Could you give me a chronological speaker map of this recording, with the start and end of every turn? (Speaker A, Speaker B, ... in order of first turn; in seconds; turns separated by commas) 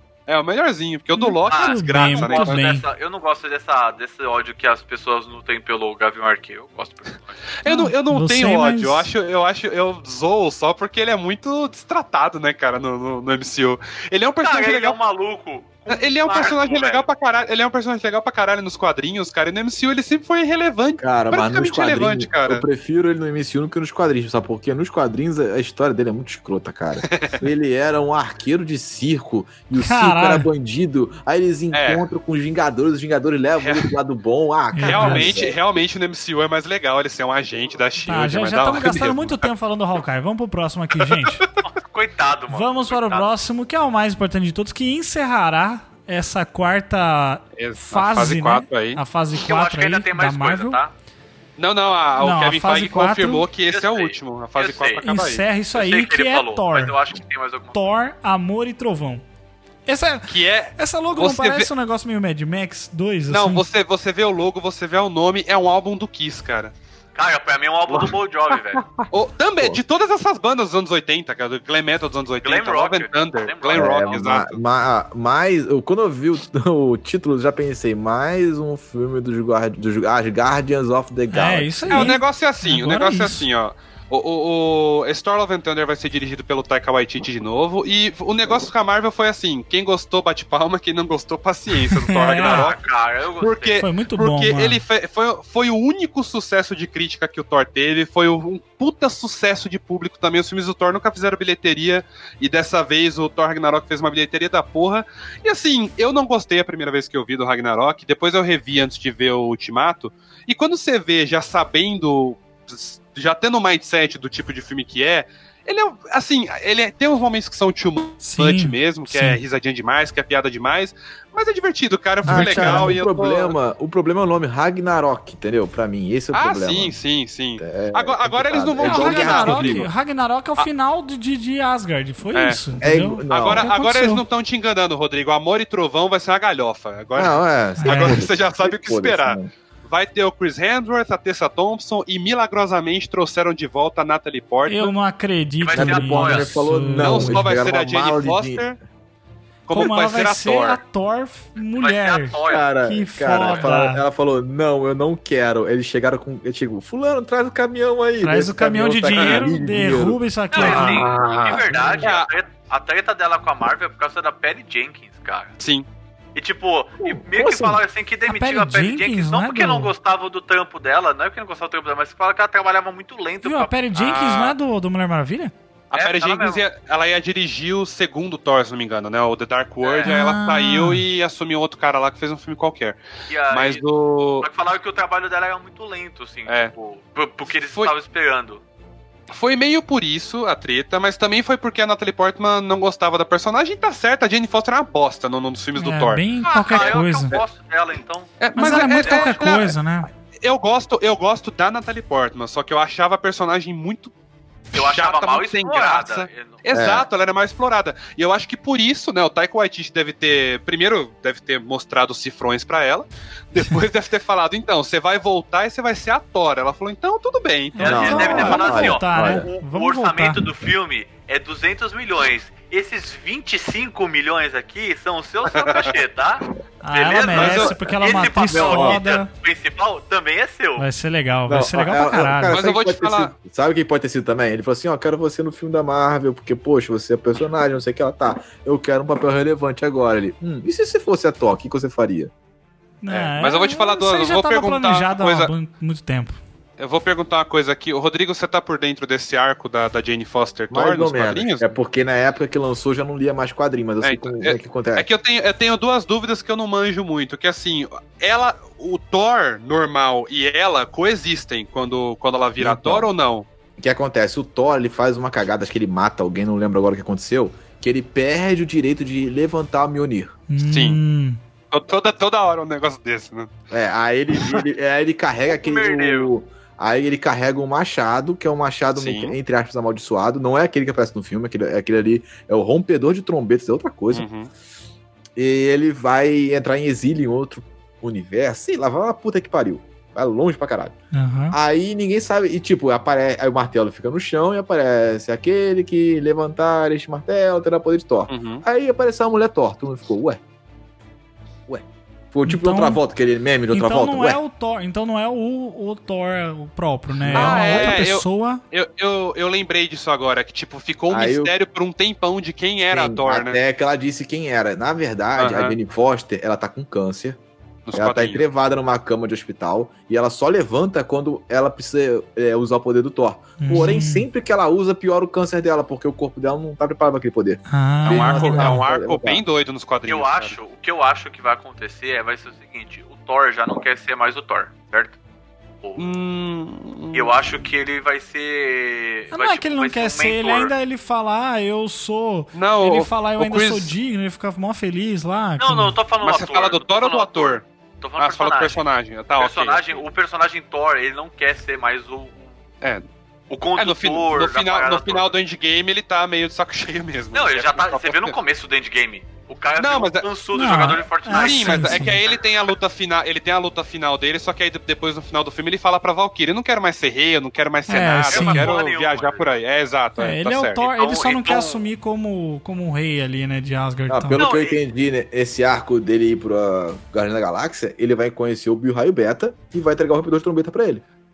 Speaker A: 0.3-2.6, Speaker B: 1.1-2.8, Speaker C: 1.5-7.4, Speaker A: 7.6-15.0, Speaker B: 7.7-9.1, Speaker C: 14.4-17.1, Speaker A: 15.9-22.6, Speaker D: 21.0-35.6, Speaker A: 27.0-27.4, Speaker B: 29.8-30.5, Speaker A: 31.7-32.1, Speaker A: 33.6-33.9, Speaker B: 34.7-35.3, Speaker A: 34.8-39.5, Speaker B: 38.1-41.5, Speaker A: 41.0-41.4, Speaker C: 41.6-43.3, Speaker B: 42.5-50.8, Speaker A: 47.6-49.0, Speaker C: 49.4-50.9, Speaker A: 51.6-55.5, Speaker B: 52.2-53.5, Speaker C: 53.7-55.1, Speaker B: 55.0-57.0, Speaker C: 55.7-58.0, Speaker B: 57.7-59.2, Speaker B: 59.9-63.6, Speaker A: 60.3-61.7, Speaker A: 63.3-66.7, Speaker C: 67.2-68.8, Speaker A: 69.0-74.6, Speaker C: 72.4-74.2, Speaker D: 73.7-82.2, Speaker B: 81.3-83.5, Speaker A: 81.9-92.8, Speaker B: 91.9-92.7, Speaker C: 92.2-93.8, Speaker A: 93.4-123.6, Speaker B: 93.8-94.8, Speaker B: 118.2-119.4, Speaker B: 122.2-123.0, Speaker D: 122.3-127.0, Speaker A: 126.3-129.9, Speaker D: 127.6-129.9, Speaker B: 128.8-134.2, Speaker A: 132.3-132.6, Speaker D: 132.8-133.7, Speaker A: 133.3-144.9, Speaker D: 137.2-139.5, Speaker B: 137.8-138.2, Speaker B: 144.7-147.5, Speaker C: 145.6-146.5, Speaker D: 145.7-148.7, Speaker A: 147.0-148.8, Speaker A: 149.7-150.8, Speaker B: 149.7-154.0, Speaker C: 151.8-152.7, Speaker D: 152.5-162.1, Speaker C: 153.3-153.7, Speaker B: 158.2-161.1, Speaker A: 159.1-159.4, Speaker C: 160.5-165.6, Speaker A: 160.6-162.3, Speaker A: 165.6-165.9, Speaker C: 166.3-173.7, Speaker D: 167.0-167.8, Speaker B: 168.3-169.9, Speaker B: 173.4-175.5, Speaker A: 173.9-174.6, Speaker A: 175.9-183.0, Speaker C: 175.9-176.6, Speaker C: 179.8-180.2, Speaker B: 180.1-181.0, Speaker C: 183.3-183.8, Speaker A: 183.5-184.5, Speaker C: 184.4-188.6, Speaker A: 186.5-186.7, Speaker A: 187.5-187.9, Speaker A: 189.3-197.4, Speaker B: 195.8-197.4, Speaker C: 196.5-199.6, Speaker A: 198.4-199.8, Speaker B: 198.6-200.1, Speaker A: 200.4-204.1, Speaker A: 204.7-218.6, Speaker C: 204.7-206.6, Speaker D: 206.7-207.1, Speaker B: 217.8-220.5, Speaker C: 217.8-230.9, Speaker D: 217.8-219.4, Speaker A: 225.5-225.9, Speaker B: 226.8-229.3, Speaker A: 227.3-227.8, Speaker D: 228.4-229.0, Speaker B: 230.8-232.6, Speaker D: 231.5-242.3, Speaker A: 232.5-233.3, Speaker B: 243.0-246.4, Speaker A: 243.1-245.5, Speaker A: 246.8-251.7, Speaker D: 250.7-255.1, Speaker A: 254.0-263.4, Speaker D: 262.6-263.1, Speaker D: 263.8-270.4, Speaker B: 270.5-271.4, Speaker A: 270.6-271.0, Speaker A: 271.7-273.5, Speaker D: 273.7-284.2, Speaker A: 274.3-274.6, Speaker C: 275.4-276.3, Speaker A: 278.9-279.4, Speaker A: 284.1-284.5, Speaker D: 285.4-290.9, Speaker B: 291.1-291.6, Speaker D: 291.5-300.4, Speaker A: 298.3-298.6, Speaker D: 301.7-304.4, Speaker B: 302.4-303.0, Speaker B: 303.7-308.6, Speaker D: 307.2-308.1, Speaker A: 307.3-313.6, Speaker D: 311.1-311.5, Speaker D: 312.9-317.4, Speaker A: 315.4-315.8, Speaker A: 317.9-318.4, Speaker D: 317.9-329.4, Speaker B: 323.6-324.3, Speaker B: 327.7-328.8, Speaker A: 328.1-330.6, Speaker C: 330.1-335.2, Speaker C: 335.8-336.1, Speaker A: 336.0-337.3, Speaker C: 337.1-340.7, Speaker B: 339.3-345.9, Speaker A: 342.5-343.9, Speaker C: 345.6-348.8, Speaker A: 346.2-347.6, Speaker A: 348.2-350.0, Speaker C: 349.4-352.5, Speaker A: 352.8-353.1, Speaker C: 353.5-355.4, Speaker A: 353.8-358.4, Speaker C: 357.3-362.4, Speaker A: 359.8-360.3, Speaker B: 360.5-362.2, Speaker A: 361.3-370.8, Speaker B: 367.9-368.7, Speaker C: 368.3-369.5, Speaker B: 370.2-374.4, Speaker C: 370.8-371.9, Speaker D: 374.1-381.0, Speaker C: 374.4-374.8